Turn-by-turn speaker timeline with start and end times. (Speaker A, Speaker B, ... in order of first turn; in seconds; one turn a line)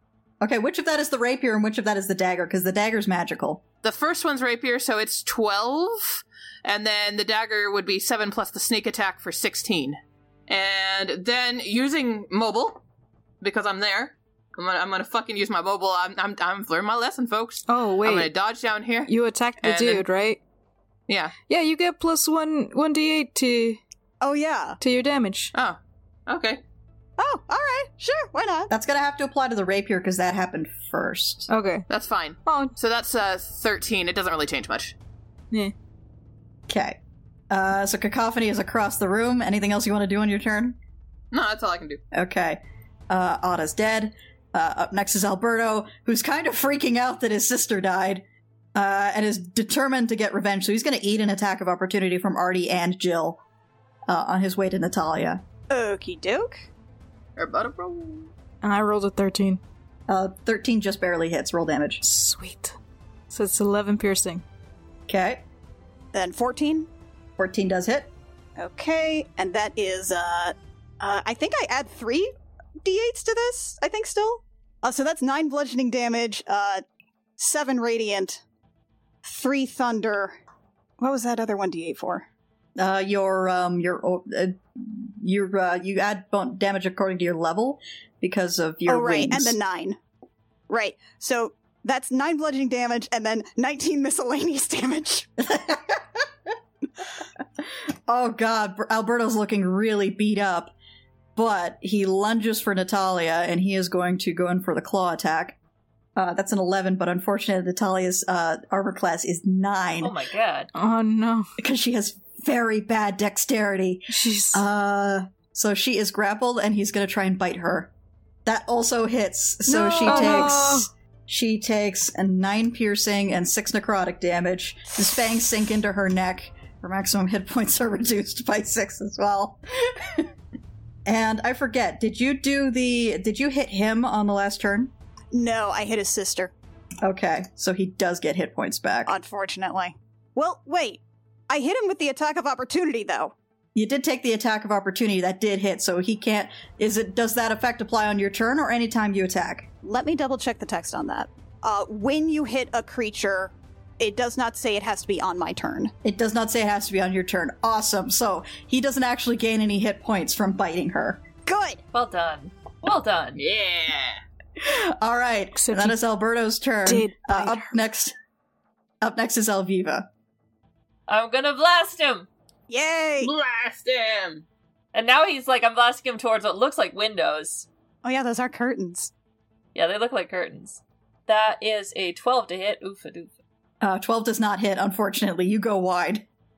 Speaker A: 0.4-3.6
Speaker B: 3.8-12.8
Speaker B: 13.4-20.0
Speaker C: 17.7-18.3
Speaker C: 19.1-20.4
Speaker B: 21.1-21.3
Speaker C: 21.5-23.8
Speaker D: 24.2-24.8
Speaker C: 24.8-25.5
Speaker B: 25.5-26.6
Speaker D: 27.2-28.7
Speaker A: 28.7-31.5
Speaker C: 31.5-31.9
Speaker B: 31.9-34.9
Speaker C: 32.5-32.7
Speaker A: 36.7-37.0
Speaker A: 37.5-40.8
Speaker B: 41.3-42.0
Speaker A: 42.1-48.2
Speaker A: 48.7-53.4
Speaker A: 54.1-55.4
Speaker D: 55.7-56.6
Speaker B: 57.4-58.3
Speaker C: 58.6-59.6
Speaker A: 60.1-62.0
Speaker C: 62.0-62.8
Speaker C: 63.3-64.4
Speaker A: 65.1-65.4
Speaker D: 66.1-66.9
Speaker A: 67.4-68.1
Speaker D: 68.6-72.3
Speaker D: 72.8-76.8
Speaker D: 77.4-78.4
Speaker D: 79.2-80.3
Speaker D: 81.0-82.2
Speaker A: 82.8-89.6
Speaker D: 88.9-90.0
Speaker D: 90.7-95.3
Speaker A: 95.4-96.3
Speaker A: 98.1-100.7
Speaker A: 101.3-105.6
Speaker A: 106.2-110.1
Speaker E: 110.0-110.7
Speaker C: 110.7-111.5
Speaker A: 111.6-117.9
Speaker C: 114.1-114.6
Speaker A: 118.5-130.3
Speaker C: 119.7-120.9
Speaker E: 120.1-120.4
Speaker A: 131.1-134.9
Speaker D: 135.3-136.5
Speaker A: 137.0-139.1
Speaker D: 139.1-143.3
Speaker A: 143.7-149.7
Speaker D: 149.8-155.9
Speaker A: 156.0-161.2
Speaker D: 161.4-161.8
Speaker E: 161.9-163.4
Speaker B: 163.4-164.2
Speaker A: 164.6-168.1
Speaker C: 165.6-166.0
Speaker C: 166.8-167.7
Speaker A: 169.0-170.1
Speaker E: 171.1-172.3
Speaker D: 172.7-173.3
Speaker B: 173.2-174.4
Speaker E: 174.9-177.7
Speaker D: 178.0-179.1
Speaker E: 179.7-183.3
Speaker A: 183.8-186.2